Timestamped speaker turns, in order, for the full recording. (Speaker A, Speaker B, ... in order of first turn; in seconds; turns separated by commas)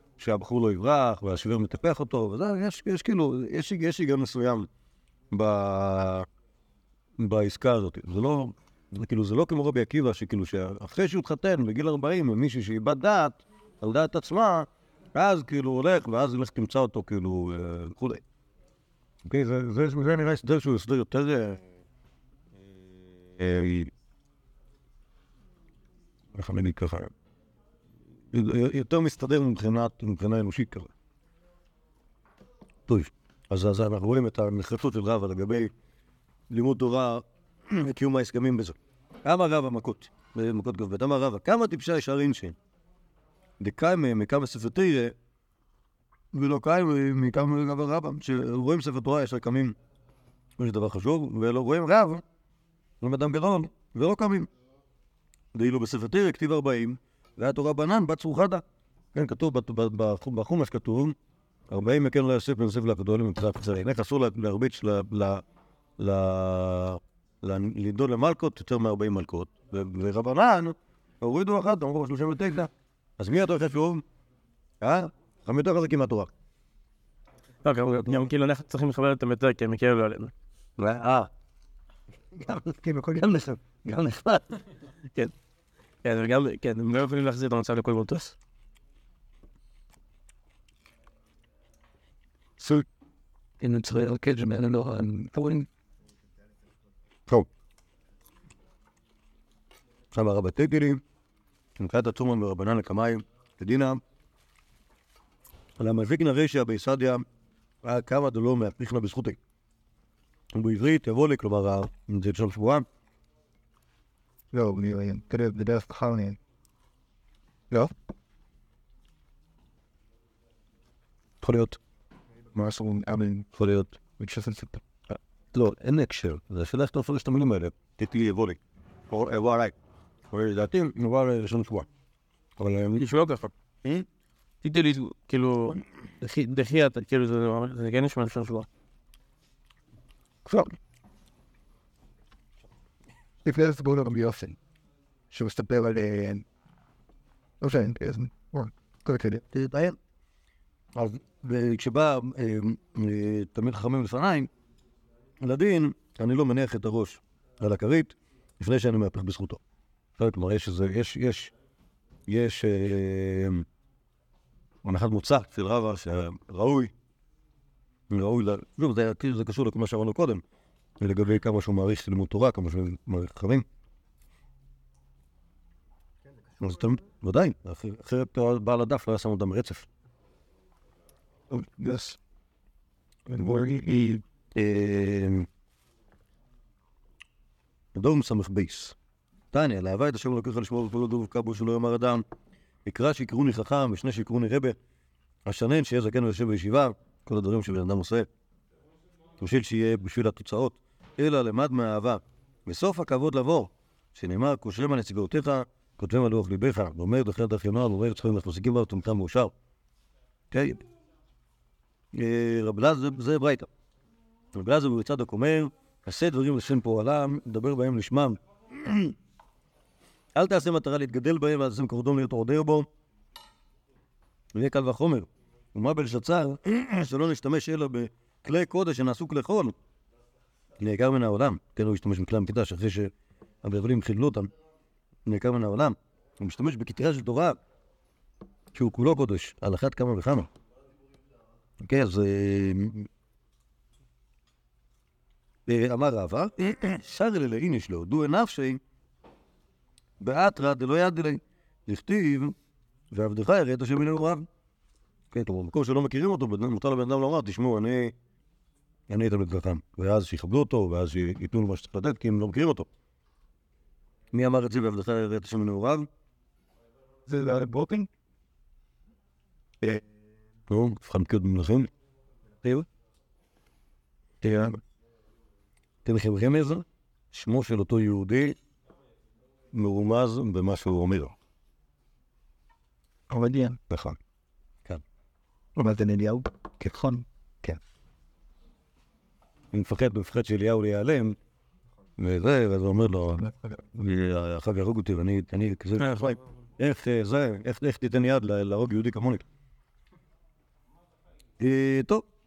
Speaker A: 0.2-4.7, Speaker A: 5.3-6.2, Speaker A: 7.2-18.2, Speaker A: 19.2-21.6, Speaker A: 23.4-23.9, Speaker A: 26.3-27.1, Speaker A: 28.3-30.9, Speaker A: 32.9-35.7, Speaker A: 36.5-42.5, Speaker A: 43.6-45.1, Speaker A: 46.3-49.7, Speaker A: 50.6-52.2, Speaker A: 53.0-54.5, Speaker A: 55.5-61.1, Speaker A: 61.7-65.4, Speaker A: 66.0-74.0, Speaker A: 74.8-76.3, Speaker B: 77.6-80.3, Speaker A: 80.8-81.3, Speaker A: 82.4-84.4, Speaker C: 82.6-83.8, Speaker B: 86.0-88.3, Speaker D: 93.6-95.7, Speaker A: 100.1-101.0, Speaker A: 101.8-104.0, Speaker A: 105.8-107.2, Speaker A: 107.8-109.4, Speaker A: 110.5-112.8, Speaker C: 114.5-116.4, Speaker C: 122.5-123.4, Speaker A: 123.5-123.9, Speaker C: 124.2-124.8, Speaker A: 125.5-129.7, Speaker A: 130.3-131.9, Speaker A: 132.6-133.0, Speaker B: 133.0-133.5, Speaker B: 134.6-138.7, Speaker C: 143.4-144.6, Speaker C: 145.3-146.4, Speaker C: 147.6-149.4, Speaker A: 149.5-150.0, Speaker A: 150.9-154.5, Speaker A: 155.4-159.6, Speaker A: 160.2-161.5, Speaker A: 162.3-163.7, Speaker A: 164.8-166.9, Speaker A: 168.1-170.4, Speaker A: 171.0-173.6, Speaker A: 176.6-179.9, Speaker D: 181.5-182.2, Speaker D: 183.3-184.2, Speaker A: 184.5-185.5, Speaker A: 187.9-188.9, Speaker A: 189.5-192.2, Speaker A: 192.8-194.8, Speaker A: 195.4-198.3, Speaker A: 199.4-209.5, Speaker A: 210.5-210.8, Speaker A: 212.1-213.7, Speaker A: 214.5-219.1, Speaker A: 220.3-222.9, Speaker A: 224.5-229.7, Speaker A: 230.8-233.1, Speaker A: 233.6-234.5, Speaker A: 235.2-237.6, Speaker A: 238.7-240.5, Speaker A: 241.8-243.1, Speaker A: 245.7-248.8, Speaker A: 250.2-252.5, Speaker A: 253.1-254.5, Speaker A: 255.3-258.1, Speaker A: 259.1-262.9, Speaker A: 264.3-266.1, Speaker C: 267.3-268.1, Speaker A: 270.7-271.9, Speaker C: 274.4-274.8, Speaker A: 276.0-278.6, Speaker A: 279.7-281.3, Speaker C: 283.3-283.8, Speaker A: 283.9-284.2, Speaker C: 285.8-287.8, Speaker A: 289.7-291.4, Speaker A: 292.2-299.4, Speaker A: 301.6-302.2